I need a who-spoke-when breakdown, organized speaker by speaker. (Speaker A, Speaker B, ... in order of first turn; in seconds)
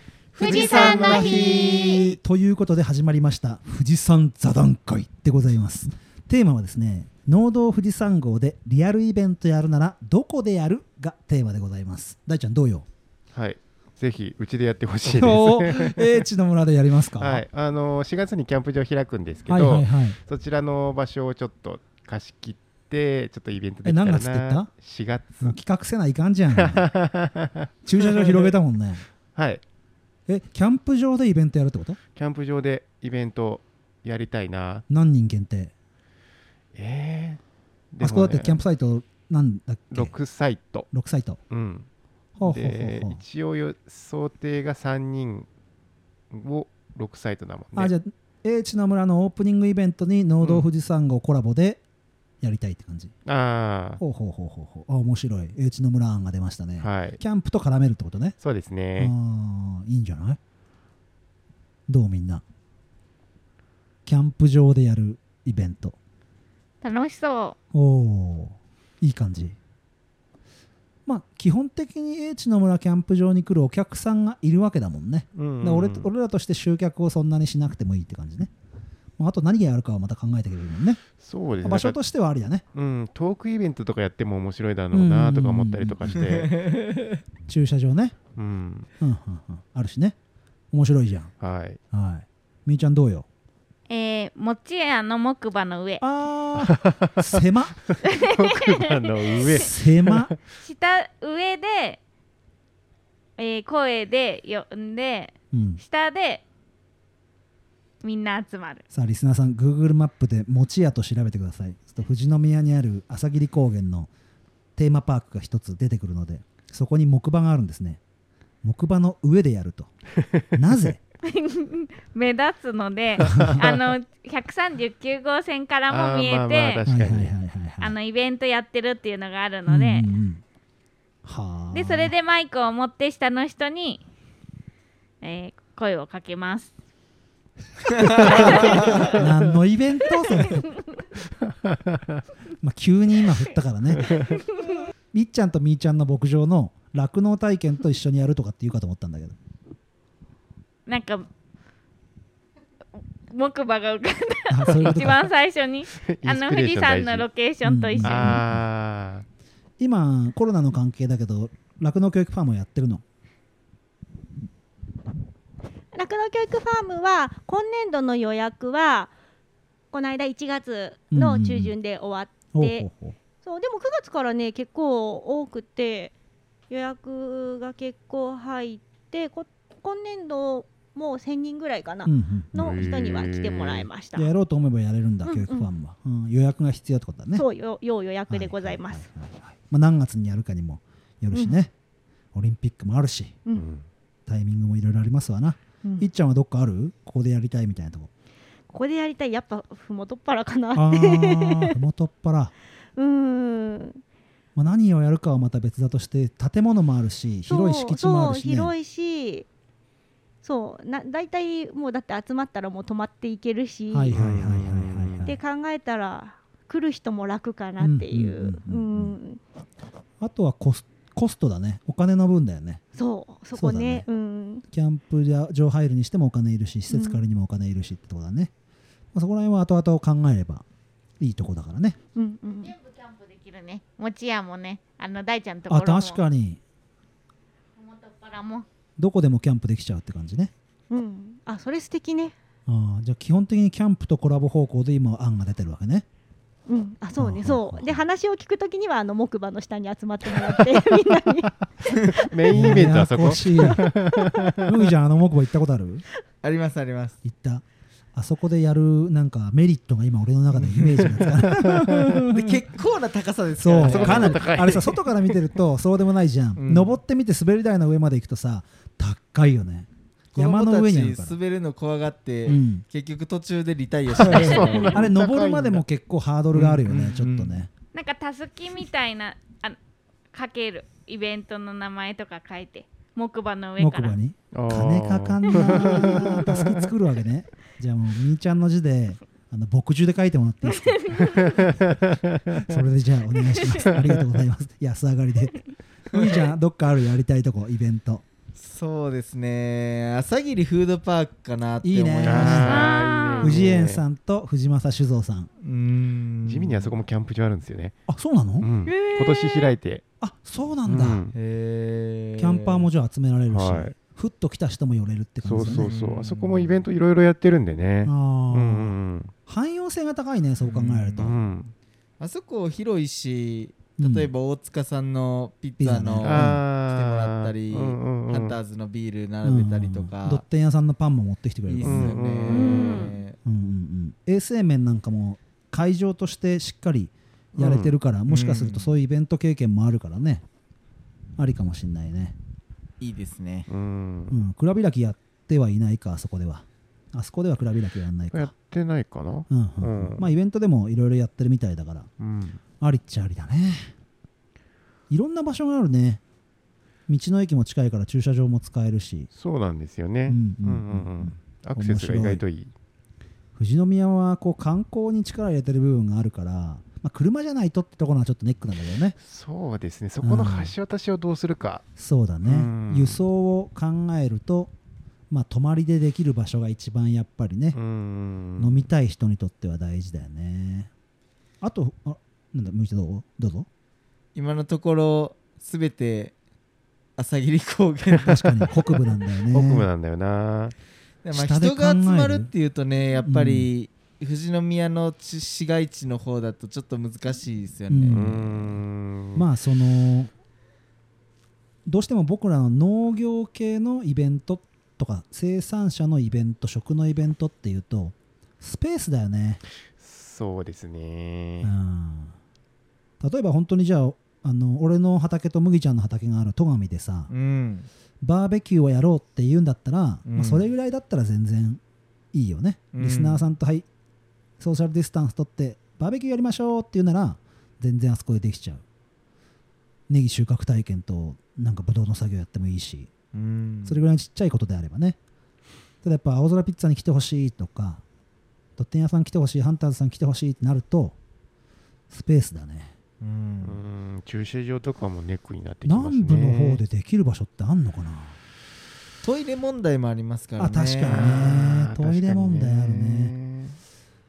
Speaker A: 0.3-2.1, 66.8-67.5, 93.9-96.0, 98.1-99.6, 100.6-102.0, 103.4-106.4, 108.0-108.8, 121.2-126.8, 127.8-130.1, 131.7-134.0, 135.2-136.7, 138.2-139.0, 150.9-151.3, 153.3-158.4, 232.6-236.2, 237.8-238.7, 277.9-279.8, 280.3-284.2, 290.6-291.6, 302.7-303.6, 332.5-333.1
Speaker B: 0.4-12.8, 15.0-17.4, 19.5-20.2, 23.8-24.7, 25.4-26.9, 27.8-29.0, 30.3-32.0, 34.9-35.7, 38.0-40.1, 40.9-41.4, 42.4-43.2, 47.7-51.8, 52.4-53.1, 54.0-58.4, 59.0-60.4, 61.9-62.4, 64.0-66.0, 67.7-69.5, 71.0-78.5, 79.2-81.0, 81.6-82.6, 84.9-86.2, 87.5-88.2, 89.0-90.2, 90.7-91.3, 91.9-93.3, 96.0-97.8, 99.5-100.3, 105.5-105.8, 108.9-114.1, 114.8-118.0, 118.6-119.9, 120.5-121.0, 123.2-123.6, 126.9-128.0, 129.7-130.4, 131.2-132.1, 138.1-140.7, 142.6-144.2, 145.1-149.3, 154.5-155.3, 157.6-158.6, 159.8-163.0, 171.1-171.8, 172.5-173.2, 182.0-182.5, 184.1-187.4, 188.3-191.7, 192.3-193.4, 194.3-198.1, 200.7-202.5, 204.6-208.7, 213.9-215.4, 217.8-219.2, 220.2-222.8, 223.5-224.1, 224.7-228.5, 229.1-230.6, 231.2-232.0, 235.7-236.6, 239.0-240.5, 242.7-246.1, 247.2-248.0, 252.5-253.9, 254.6-256.1, 257.2-257.6, 258.1-262.4, 263.6-271.4, 272.4-272.8, 274.2-277.7, 283.8-291.2, 292.6-298.2, 301.8-302.9, 303.4-305.5, 308.1-308.7, 310.2-311.2, 312.4-315.9, 318.0-321.4, 324.0-324.3, 325.8-326.6, 329.4-332.2, 333.4-340.4, 341.4-342.4, 344.3-348.5, 349.5-352.1, 352.8-353.9, 355.1-356.2, 357.1-359.3, 360.2-362.4, 363.6-369.1, 370.2-370.7, 371.9-374.7, 375.3-377.8, 378.6-380.9, 381.6-383.7, 388.2-389.9, 391.3-392.5, 393.2-393.7, 397.9-398.8, 399.3-400.3, 401.9-409.6, 411.6-412.4, 413.2-417.3, 418.2-421.8, 422.3-423.9, 424.6-428.8, 430.1-433.1, 433.8-435.2, 436.0-438.0, 438.8-441.1, 442.1-442.9, 445.8-448.4, 450.6-453.3
Speaker C: 13.3-16.1, 17.2-25.6, 26.6-28.5, 29.3-29.6, 32.1-34.8, 36.7-37.4, 37.9-38.6, 39.9-40.9, 41.5-41.9, 42.4-45.5, 46.3-47.9, 50.4-50.7, 53.2-54.0, 56.8-57.2, 58.4-59.1, 75.3-76.1, 81.2-82.0, 82.7-86.6, 88.3-88.9, 91.4-91.8, 96.6-97.2, 98.2-100.4, 125.9-127.3, 141.6-142.2, 156.0-157.3, 158.0-159.2, 182.5-183.9, 193.6-193.8, 214.1-215.3, 252.1-254.7, 261.5-262.1, 263.9-265.4, 274.3-275.8, 284.5-286.8, 291.4-292.7, 302.2-304.0, 306.4-308.0, 308.6-310.0, 310.8-311.3, 313.5-314.0, 315.4-319.3, 321.1-321.7, 326.2-328.6, 331.8-332.8, 337.6-337.9, 343.7-344.4, 348.3-350.3, 352.2-352.6, 359.3-362.7, 369.1-371.8, 372.4-373.2, 377.7-378.9, 389.5-390.7, 398.1-399.4, 410.0-411.7, 443.6-446.8, 451.1-453.8
Speaker D: 86.5-87.2, 256.4-257.2, 260.5-261.4, 262.3-264.9, 266.6-267.0, 270.3-275.1, 276.5-277.6, 298.6-303.5, 305.6-306.9, 311.3-312.9, 315.6-316.9, 320.7-321.2, 322.2-330.4, 331.7-333.4, 338.3-338.9, 343.0-343.7, 384.3-386.3, 387.2-388.8, 391.2-398.4, 417.3-417.9, 420.2-420.7, 422.9-423.4, 433.3-434.0, 443.2-443.8, 449.2-451.7
Speaker E: 165.9-169.1, 169.9-172.9, 173.4-176.1, 176.7-184.3, 185.2-185.7, 187.3-189.1, 191.3-191.6, 198.7-201.8, 202.9-204.0, 207.4-209.4, 210.4-214.1, 215.2-219.4, 222.9-224.6, 226.9-227.2, 232.2-232.7, 240.9-242.3, 246.7-253.0, 253.6-254.4, 308.9-309.7